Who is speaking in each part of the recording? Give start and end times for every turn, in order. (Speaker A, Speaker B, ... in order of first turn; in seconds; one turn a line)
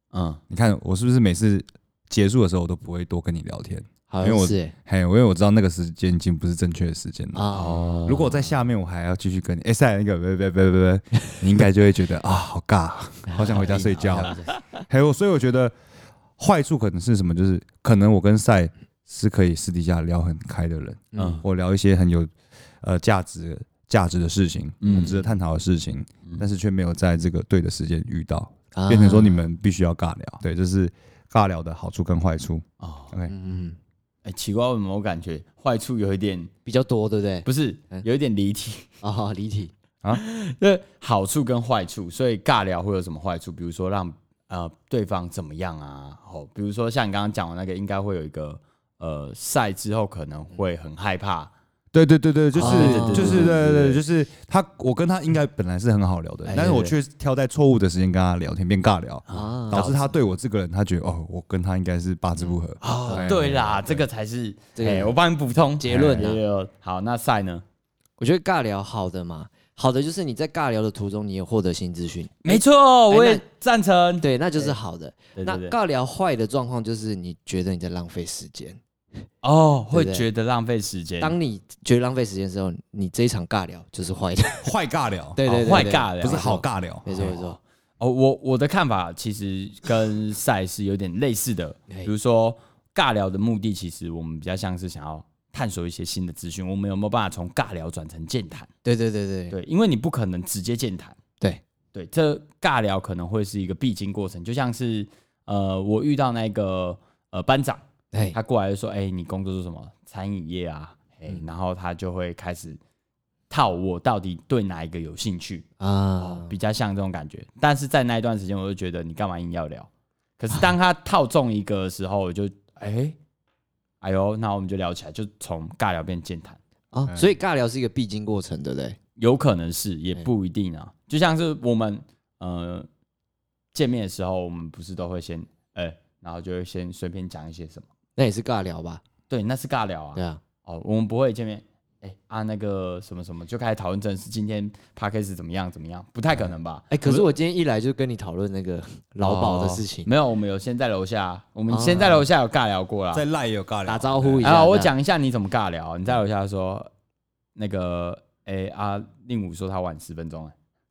Speaker A: 0.1-0.4
Speaker B: 0.5-7.5
Speaker C: 4.1-4.7
Speaker C: 7.3-8.3
Speaker A: 7.5-8.3
Speaker B: 8.1-15.7
Speaker C: 13.3-14.6
Speaker B: 16.4-33.3
Speaker C: 21.1-21.4
Speaker A: 21.2-21.4
Speaker A: 24.8-25.2
Speaker C: 24.9-25.3
Speaker C: 28.7-29.5
Speaker A: 32.8-33.1
Speaker C: 33.3-33.8
Speaker A: 34.2-36.5
Speaker C: 36.7-38.0
Speaker A: 37.5-38.9
Speaker C: 39.0-39.7
Speaker A: 40.1-51.5
Speaker B: 51.9-64.0
Speaker C: 52.6-53.6
Speaker A: 52.6-54.0
Speaker A: 56.5-56.9
Speaker C: 56.5-56.8
Speaker A: 59.3-60.1
Speaker C: 59.3-59.9
Speaker A: 62.8-67.6
Speaker C: 63.0-63.4
Speaker C: 64.8-65.2
Speaker C: 65.8-66.4
Speaker B: 65.9-66.3
Speaker C: 68.2-73.4
Speaker A: 72.4-74.7
Speaker C: 74.2-78.8
Speaker A: 75.4-75.7
Speaker A: 79.4-81.4
Speaker C: 79.9-80.2
Speaker C: 81.2-84.7
Speaker B: 84.6-85.4
Speaker C: 85.4-87.6
Speaker A: 85.4-98.7
Speaker B: 86.2-87.4
Speaker C: 98.8-99.5
Speaker A: 99.5-101.2
Speaker A: 101.9-112.8
Speaker A: 113.5-115.7
Speaker C: 115.8-116.5
Speaker A: 116.2-123.2
Speaker A: 124.0-126.6
Speaker C: 126.9-129.0
Speaker A: 129.2-132.9
Speaker A: 133.7-137.9
Speaker C: 138.2-139.0
Speaker A: 139.3-147.3
Speaker C: 140.2-140.4
Speaker C: 146.9-150.1
Speaker A: 149.2-153.2
Speaker C: 151.7-152.2
Speaker B: 153.1-154.5
Speaker C: 153.9-154.9
Speaker A: 154.4-156.9
Speaker A: 157.6-160.5